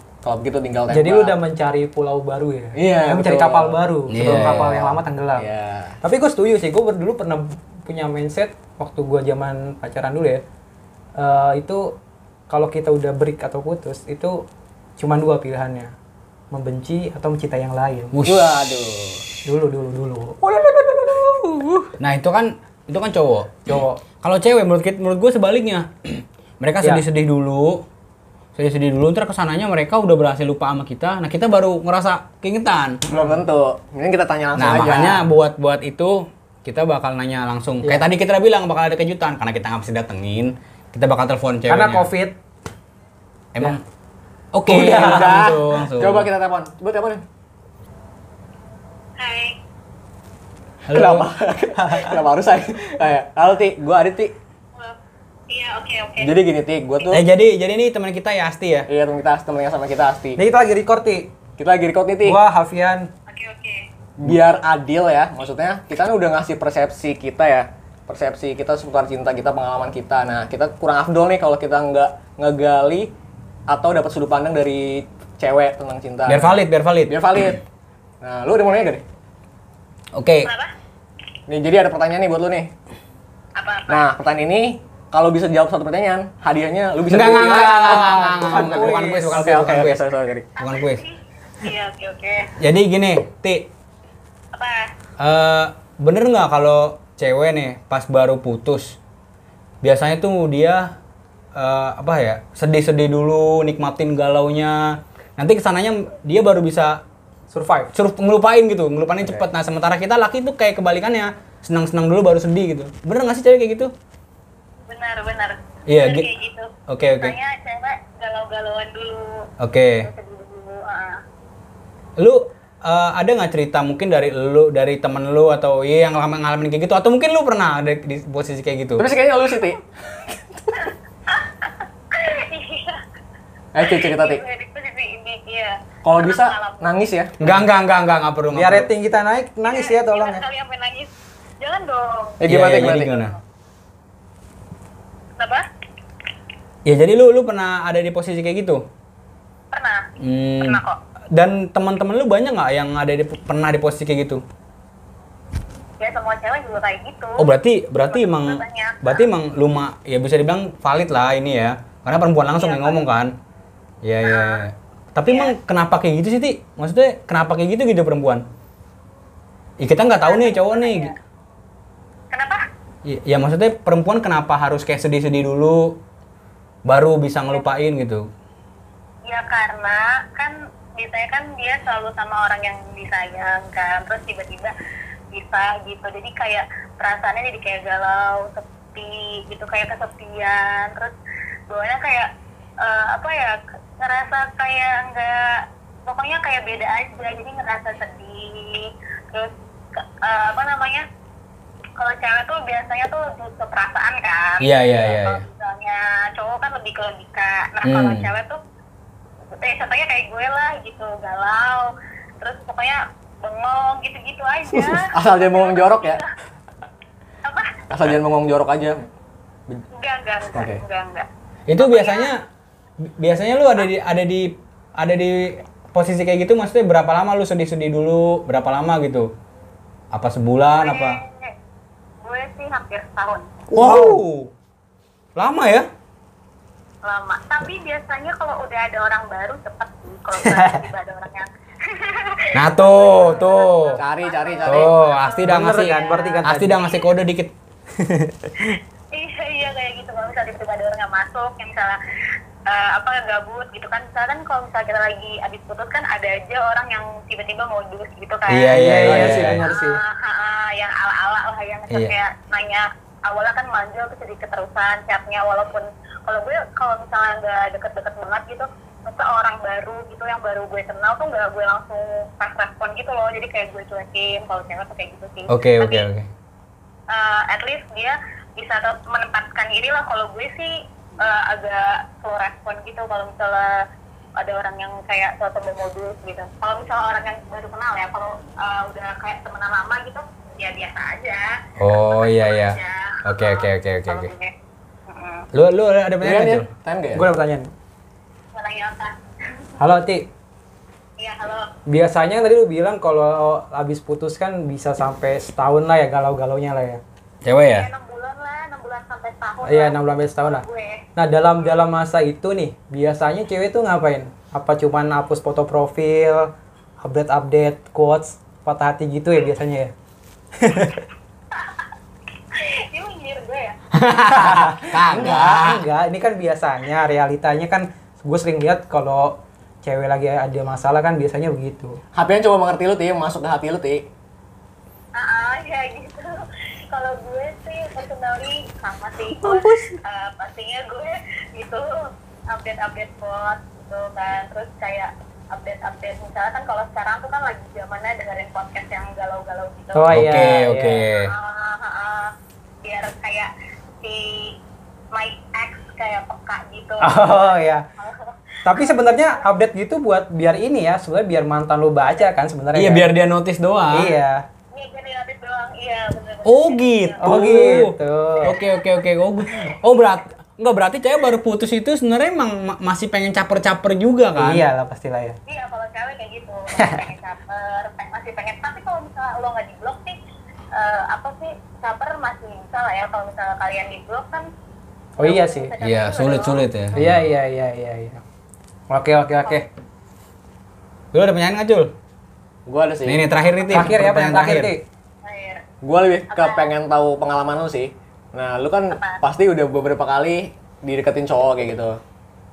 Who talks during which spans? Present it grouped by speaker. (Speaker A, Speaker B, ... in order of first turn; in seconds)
Speaker A: 0.2-1.4, 2.8-6.0, 18.2-19.3, 20.4-21.9, 33.1-35.3, 44.7-47.2, 50.9-54.3, 56.2-57.2, 58.9-60.4, 61.6-62.4, 64.2-73.1, 73.7-77.6, 78.2-79.0, 81.5-82.7, 83.9-90.5, 129.0-129.8, 133.7-134.4, 136.0-137.4, 142.4-143.2, 214.7-216.2, 217.9-219.1, 220.5-220.8, 243.9-244.9, 296.2-297.3, 332.1-334.1, 392.7-393.2, 395.8-402.0
Speaker B: 0.9-5.5, 6.0-10.4, 11.2-11.9, 12.5-14.4, 15.0-15.9, 16.5-18.2, 19.4-20.4, 23.7-24.0, 41.7-42.4, 44.7-45.5, 51.8-52.1, 60.4-61.3, 62.2-63.1, 87.5-89.6, 107.5-107.9, 138.5-140.4, 233.7-234.2, 240.4-240.8, 245.4-246.8, 248.0-248.8, 258.7-260.0, 297.1-297.7, 299.8-300.3, 301.9-307.0, 309.6-310.6, 311.2-319.9, 320.6-321.0, 324.3-332.0, 349.9-351.0, 357.0-357.9, 358.6-363.1, 363.9-364.4, 367.2-368.5, 374.4-375.4, 376.8-377.0, 385.2-385.7, 386.9-388.2, 388.9-389.7, 393.7-394.8
Speaker C: 4.1-4.8, 18.1-18.6, 22.0-27.9, 28.6-33.0, 34.6-42.1, 43.5-43.8, 44.5-46.3, 50.9-51.3, 57.1-58.9, 76.3-77.2, 80.1-80.5, 87.1-90.0, 90.6-91.0, 92.6-93.7, 95.2-99.0, 99.8-101.0, 101.5-107.0, 107.9-113.9, 115.9-116.3, 116.9-117.4, 119.6-120.1, 122.2-129.1, 137.4-138.9, 142.5-143.3, 146.9-148.8, 150.2-150.8, 151.3-154.4, 157.4-163.4, 164.0-168.5, 169.8-171.1, 173.1-176.0, 176.8-178.3, 204.6-205.5, 207.8-208.3, 221.7-222.4, 223.1-229.3, 230.1-231.2, 233.7-234.5, 235.4-235.9, 242.5-244.0, 244.7-247.5, 258.5-259.6, 275.5-276.3, 291.8-294.3, 295.5-296.7, 307.4-307.9, 323.9-325.9, 339.4-339.9, 350.1-351.3, 362.7-364.1, 366.4-374.6, 385.8-387.2, 391.1-391.9, 393.1-394.7
Speaker D: 49.2-49.6, 55.5-56.4, 63.3-63.9, 80.4-80.7, 83.6-84.1, 90.6-92.5, 94.5-94.9, 114.9-119.5, 120.0-121.2, 130.8-133.0, 133.8-136.9, 139.6-142.4, 143.1-143.4, 145.4-145.7, 149.7-151.0, 156.0-157.5, 158.1-159.3, 162.6-163.0, 164.2-164.6, 165.3-165.6, 170.2-171.2, 172.3-172.6, 179.3-184.8, 185.3-191.2, 191.7-201.1, 202.0-208.6, 209.5-216.3, 217.4-217.8, 219.9-222.3, 230.8-231.5, 232.2-233.5, 237.0-246.9, 249.1-252.0, 252.7-276.1, 277.1-283.8, 284.4-294.5, 295.1-295.5, 298.5-299.6, 301.2-301.7, 307.7-311.0, 321.5-321.9, 322.5-323.8, 335.1-350.1, 351.1-352.3, 352.8-353.5, 354.0-354.6, 355.1-359.4, 364.7-367.7, 368.4-369.5, 375.5-380.2, 380.7-384.5, 385.2-386.6, 395.2-395.6, 396.3-396.7, 398.9-399.2